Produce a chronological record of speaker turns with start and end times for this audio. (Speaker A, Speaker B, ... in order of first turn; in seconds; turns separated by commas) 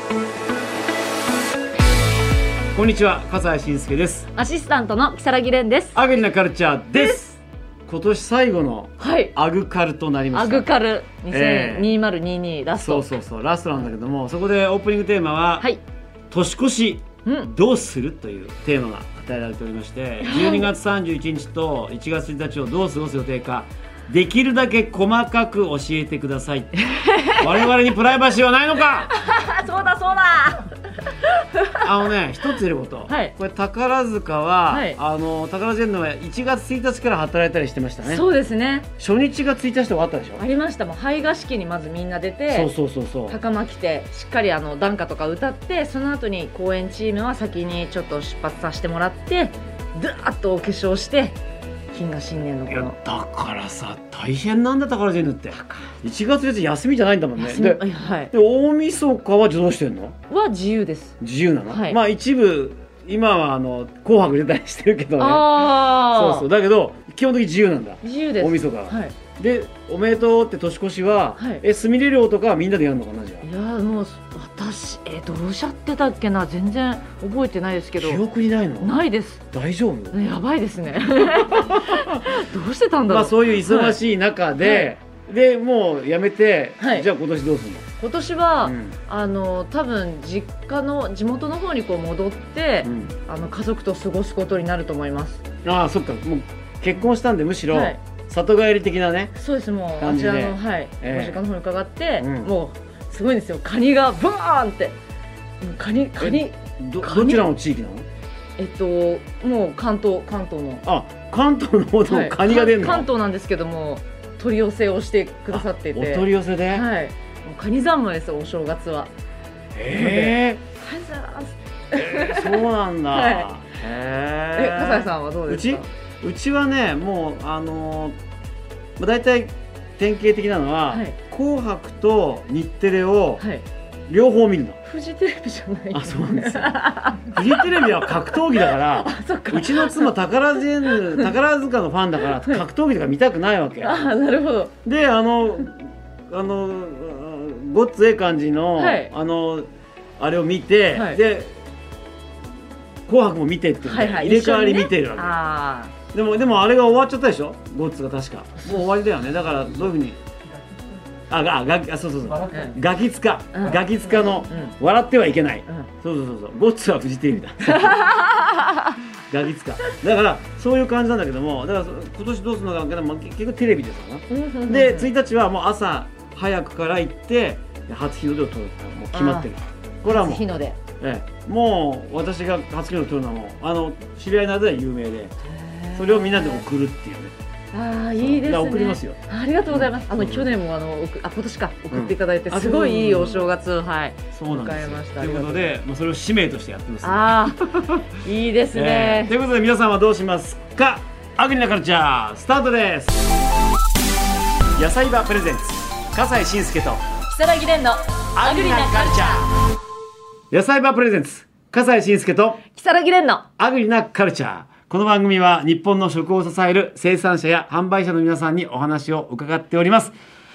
Speaker A: 2.7-4.3, Speaker B: 4.3-6.0, Speaker A: 5.9-10.7, Speaker B: 9.0-9.3, Speaker B: 10.3-13.1, Speaker A: 11.3-11.9, Speaker A: 12.7-15.7, Speaker A: 16.3-26.7, Speaker B: 17.2-17.5, Speaker B: 20.2-20.7, Speaker B: 26.8-27.6, Speaker A: 27.4-29.1, Speaker B: 29.1-31.9, Speaker A: 31.8-38.2, Speaker B: 33.1-33.3, Speaker B: 34.7-35.0, Speaker B: 38.0-38.9, Speaker A: 39.0-40.4, Speaker B: 40.4-42.7, Speaker A: 42.5-43.4, Speaker B: 43.3-51.4, Speaker B: 51.9-53.0, Speaker A: 52.7-60.1, Speaker B: 55.5-55.9, Speaker B: 57.4-58.3, Speaker B: 60.3-61.1, Speaker A: 61.2-73.5, Speaker B: 61.7-62.0, Speaker B: 65.2-66.5, Speaker B: 68.0-69.1, Speaker B: 71.4-71.6, Speaker B: 73.4-78.2, Speaker A: 78.0-80.2, Speaker B: 78.8-79.4, Speaker B: 80.1-84.0, Speaker A: 81.3-82.4, Speaker A: 83.0-87.9, Speaker B: 84.6-84.9, Speaker B: 86.8-87.1, Speaker B: 88.0-95.4, Speaker A: 88.6-89.0, Speaker A: 92.8-93.1, Speaker A: 95.6-99.3, Speaker B: 97.7-98.0, Speaker B: 99.4-105.0, Speaker A: 100.0-101.4, Speaker A: 102.2-102.5, Speaker B: 105.6-107.4, Speaker A: 106.2-108.0, Speaker B: 108.6-110.8, Speaker A: 110.8-113.1, Speaker B: 112.1-119.1, Speaker A: 115.5-116.9, Speaker A: 119.7-120.6, Speaker B: 119.9-123.5, Speaker A: 121.9-128.2, Speaker B: 124.5-125.9, Speaker A: 129.0-133.4, Speaker B: 133.4-133.6, Speaker A: 134.1-134.8, Speaker B: 134.8-140.1, Speaker A: 135.9-144.1, Speaker B: 140.9-141.3, Speaker B: 142.3-142.6, Speaker B: 143.8-144.7, Speaker A: 144.8-151.6, Speaker B: 148.8-149.1, Speaker B: 150.9-151.2, Speaker A: 153.1-155.4, Speaker B: 153.8-155.9, Speaker A: 156.1-160.2, Speaker B: 158.6-158.9, Speaker A: 161.3-168.1, Speaker B: 162.5-162.8, Speaker B: 163.5-164.8, Speaker B: 167.6-168.9, Speaker A: 169.3-180.4, Speaker B: 174.3-175.1, Speaker B: 179.1-179.5, Speaker B: 180.0-180.8, Speaker A: 181.0-185.3, Speaker B: 185.5-186.6, Speaker A: 185.9-187.3, Speaker B: 187.7-195.8, Speaker A: 188.2-190.5, Speaker A: 191.9-193.5, Speaker A: 194.3-198.0, Speaker B: 197.0-199.3, Speaker A: 198.7-203.3, Speaker A: 204.8-207.1, Speaker B: 207.3-209.4, Speaker A: 208.3-209.5, Speaker A: 210.5-212.6, Speaker B: 212.7-213.5, Speaker A: 213.6-220.2